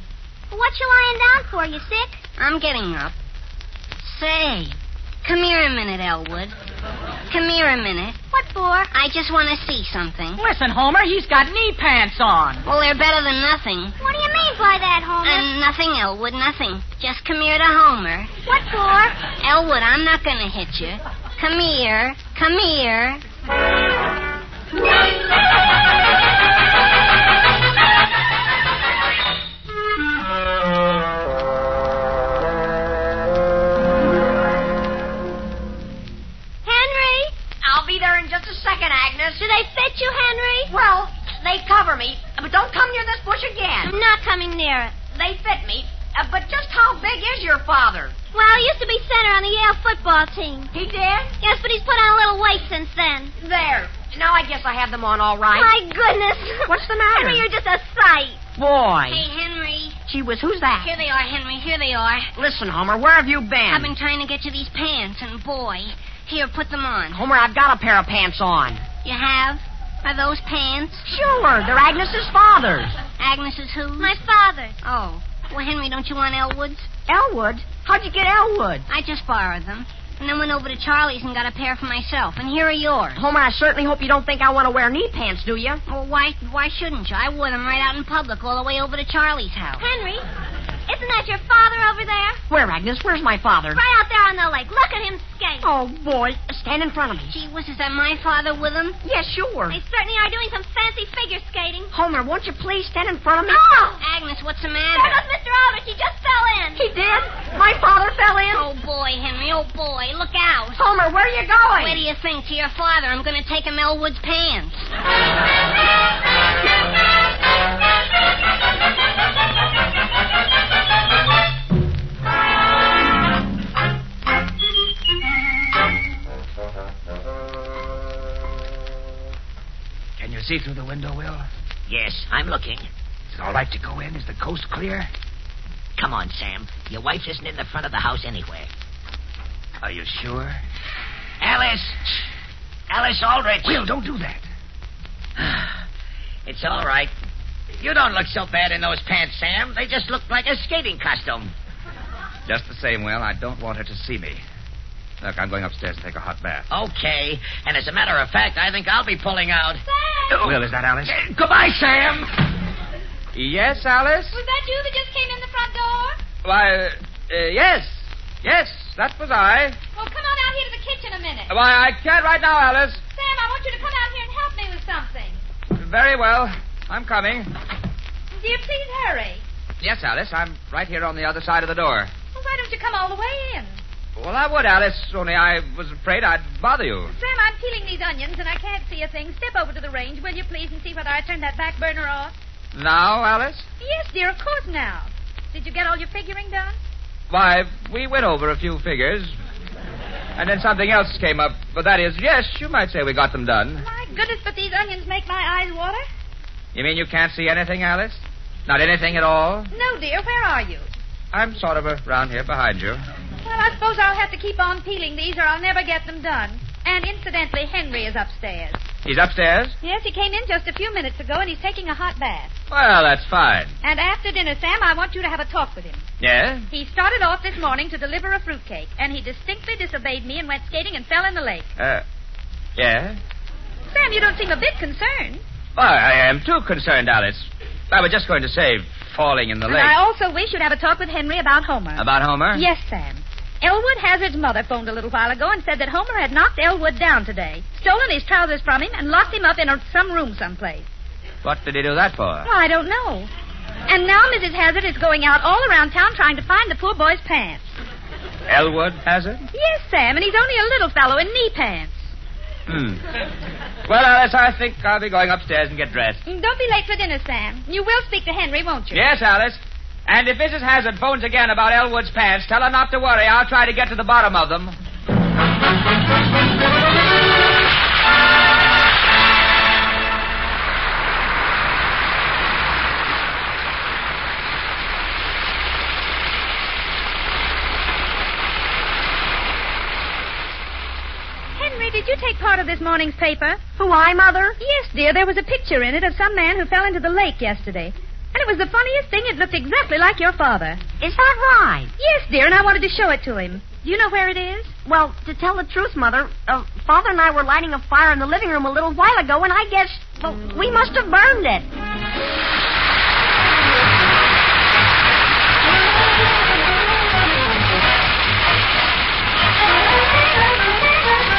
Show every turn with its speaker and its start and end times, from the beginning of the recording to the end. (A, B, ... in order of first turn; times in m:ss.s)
0:00.5-0:02.2 A
0:02.4-0:03.2 B
0:04.0-0:06.6 B
0:07.3-0:08.2 B
0:08.3-0:08.9 A
0:08.9-0:10.4 B
0:10.4-0:12.6 C
0:12.7-0:14.0 B
0:14.0-0:15.5 A
0:15.2-0:18.3 B
0:18.4-0:19.2 A
0:19.4-0:23.2 B
0:36.6-0:37.3 A
0:37.6-0:39.5 D
0:39.4-0:40.7 A
0:40.7-0:43.9 D
0:43.8-0:45.0 A
0:45.1-0:48.2 D
0:48.3-0:50.7 A
0:50.7-0:51.3 D
0:51.4-0:53.3 A
0:53.4-0:55.7 D
0:55.5-0:58.4 A
0:56.6-0:57.5 D
0:58.6-0:59.2 D
0:59.1-1:00.0 B
1:00.1-1:00.9 D
1:00.8-1:02.3 B
1:02.4-1:03.9 D
1:03.7-1:07.2 B
1:07.1-1:08.8 D
1:09.0-1:11.1 B
1:11.1-1:12.9 D
1:13.2-1:14.2 B
1:14.0-1:14.8 A
1:14.8-1:16.9 B
1:17.1-1:18.8 D
1:18.9-1:23.2 B
1:23.2-1:25.8 D
1:25.9-1:29.8 B
1:29.8-1:30.2 A
1:30.9-1:32.4 A
1:32.5-1:33.8 D
1:33.7-1:35.7 A
1:35.6-1:37.3 D
1:37.3-1:39.0 B
1:39.0-1:39.8 D
1:39.7-1:41.9 A
1:41.9-1:44.0 D
1:44.0-1:45.2 B
1:44.9-1:46.9 A
1:46.8-1:48.7 D
1:48.5-1:50.8 B
1:50.8-1:52.0 D
1:51.8-1:54.9 B
2:10.2-2:11.5 E
2:11.9-2:12.9 F
2:13.4-2:15.0 F
2:16.0-2:18.7 F
2:19.8-2:20.6 E
2:21.4-2:21.9 F
2:22.9-2:23.8 F
2:23.7-2:24.4 E
2:26.5-2:27.1 F
2:27.8-2:31.5 F
2:32.5-2:34.4 E
2:35.2-2:36.7 E
2:36.7-2:39.8 F
2:39.9-2:40.4 G
2:40.4-2:41.2 E
2:41.2-2:42.1 F
2:43.4-2:44.4 E
2:44.3-2:46.2 G
2:46.4-2:49.8 E
2:50.0-2:51.5 G
2:51.5-2:53.0 E
2:53.2-2:55.4 G
2:55.8-2:57.5 E
2:58.4-2:59.4 G
2:59.8-3:02.1 E
3:02.3-3:03.8 G
3:04.2-3:07.1 E
3:07.1-3:12.3 G
3:12.7-3:13.7 E
3:13.8-3:16.8 G
3:17.3-3:19.3 E
3:20.4-3:23.8 E
3:23.8-3:26.0 G
3:26.7-3:29.7 E
3:29.7-3:30.9 G
3:31.3-3:33.0 E
3:33.4-3:38.8 G
3:39.0-3:39.7 E
3:39.8-3:42.5 G
3:42.7-3:43.7 E
3:43.8-3:46.0 G
3:46.2-3:46.7 E
3:46.7-3:51.7 G
3:51.8-3:52.0 E
3:52.8-3:53.2 E
3:53.9-3:55.4 G
3:55.8-4:00.0 E
3:59.6-4:10.9 G
4:02.0-4:02.6 E
4:11.4-4:12.5 E
4:12.4-4:13.3 G
4:13.9-4:17.6 G
4:18.5-4:19.4 E
4:19.5-4:22.1 G
4:22.7-4:23.0 E
4:23.9-4:26.2 E
4:26.3-4:29.0 G
4:28.9-4:34.8 E
4:51.6-4:53.6 G
4:53.8-4:54.6 D
4:54.6-5:00.8 G
5:01.0-5:01.9 D
5:02.0-5:04.7 G
5:04.8-5:11.7 D